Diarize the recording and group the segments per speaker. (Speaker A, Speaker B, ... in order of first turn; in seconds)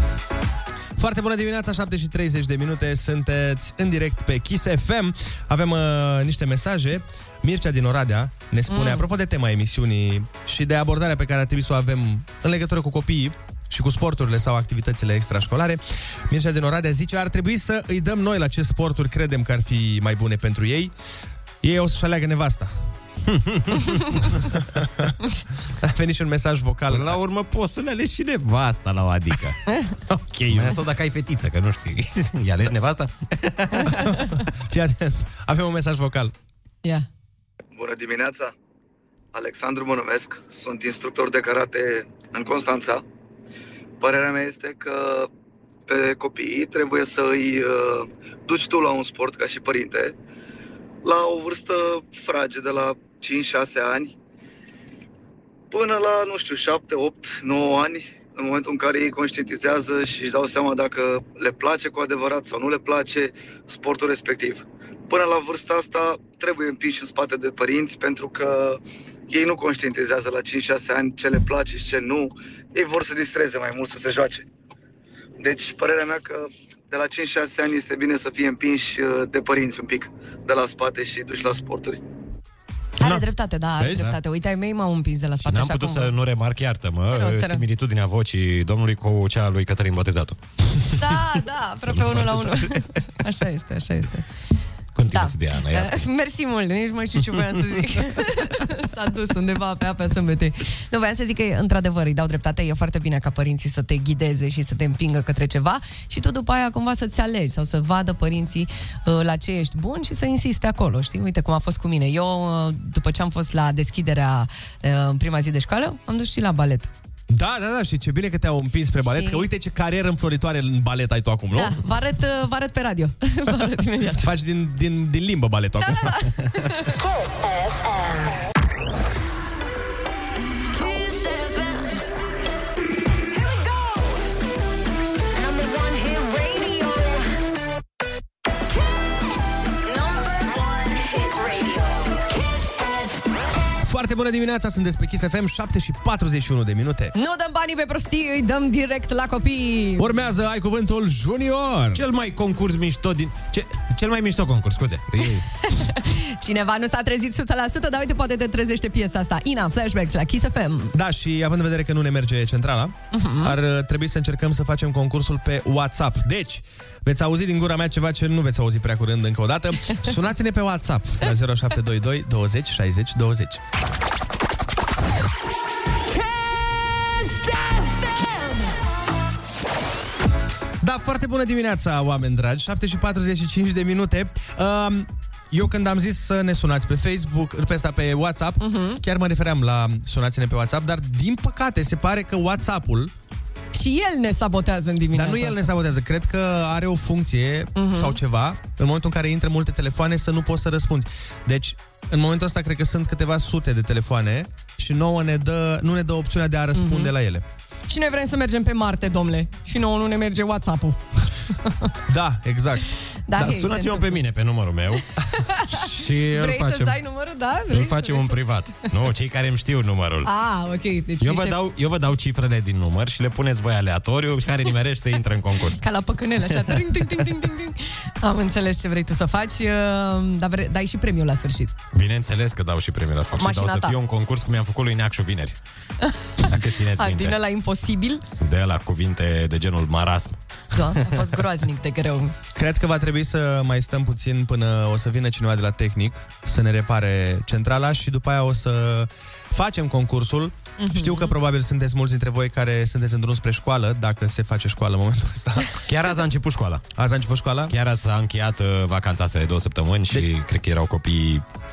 Speaker A: 1.0-20.9, 21.6-22.7, 24.5-25.1, 25.8-27.2, 30.1-30.8, 34.0-36.3, 83.8-84.1, 117.3-121.8, 124.2-126.3, 143.8-147.1, 150.0-152.0, 160.9-173.6, 180.8-193.1, 195.1-207.4, 212.1-212.9, 242.5-255.7, 256.9-257.7
Speaker B: 8.7-9.0, 33.7-34.4, 83.0-86.1, 87.1-87.6, 91.0-94.2, 95.1-116.9, 119.0-119.5, 121.5-124.3, 125.8-126.9, 147.1-150.1, 155.7-160.9, 163.1-163.5, 188.6-189.0, 193.7-195.7, 197.8-198.2, 206.8-207.1, 207.9-211.0, 211.6-211.9, 213.3-214.2, 215.3-218.4, 220.2-221.6, 225.8-231.7, 233.3-234.0, 236.9-238.2, 240.7-242.3, 250.8-251.3
Speaker C: 23.3-24.2, 26.9-29.6, 30.5-34.0, 85.4-90.4, 91.8-92.8, 94.9-96.0, 151.9-155.5, 213.3-215.1, 215.7-217.0, 217.7-220.3, 221.2-225.8, 226.5-226.9, 231.9-235.6, 236.5-237.4, 238.4-241.3, 255.8-256.8, 257.7-261.4
Speaker D: 37.7-38.5, 39.3-43.0, 44.0-45.3, 45.9-50.1, 51.0-54.1, 55.7-74.4, 75.4-82.0
Speaker E: 127.0-128.4, 130.7-132.0, 135.3-137.2, 138.9-143.2